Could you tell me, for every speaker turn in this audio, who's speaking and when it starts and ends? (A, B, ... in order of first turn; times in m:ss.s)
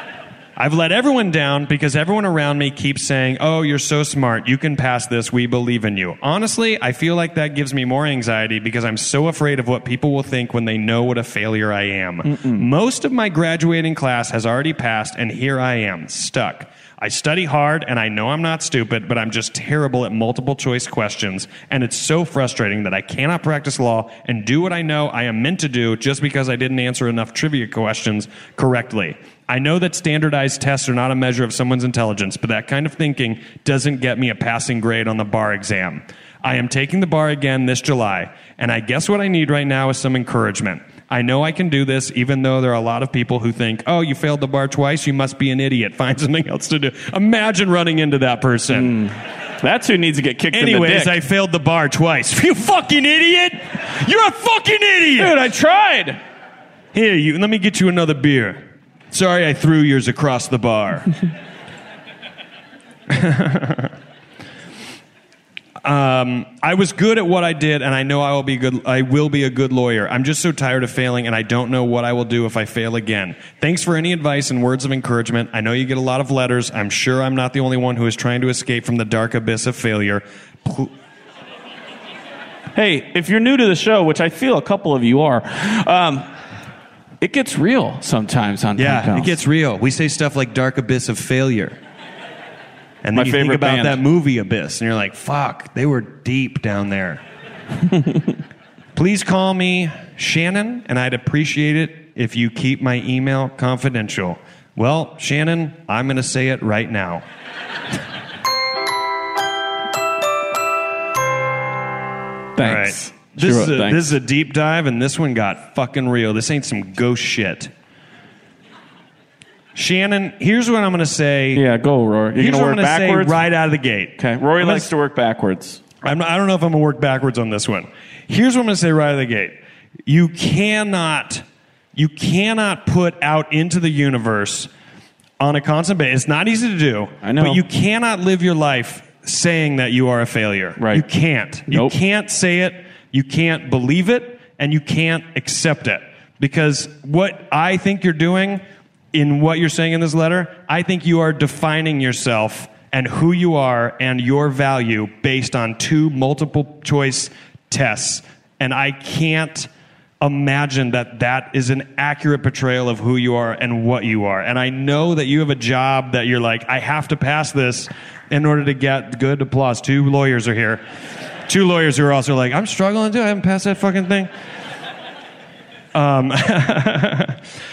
0:00.6-0:49.0 A
0:12.2-0:12.6 B
0:48.7-0:51.2 B
0:50.5-0:55.4 A
0:55.2-0:56.2 B
0:56.9-1:01.1 A
1:03.1-1:03.9 A
1:05.8-1:20.9 A
1:22.7-1:26.3 B
1:27.2-1:29.4 B
1:28.8-1:31.8 A
1:33.0-1:37.2 A
1:33.1-1:34.0 B
1:38.9-1:47.2 A
1:52.6-1:54.1 B
1:52.6-1:57.7 A
1:59.7-2:01.6 A
2:01.5-2:03.4 B
2:02.4-2:04.9 A
2:04.2-2:05.8 B
2:06.0-2:11.4 A
2:11.9-2:14.7 A
2:15.4-2:39.7 A
2:17.2-2:17.6 B
2:20.8-2:21.0 B
2:21.7-2:21.9 B
2:40.2-2:50.8 A
2:51.4-2:54.3 A
2:55.9-2:57.4 A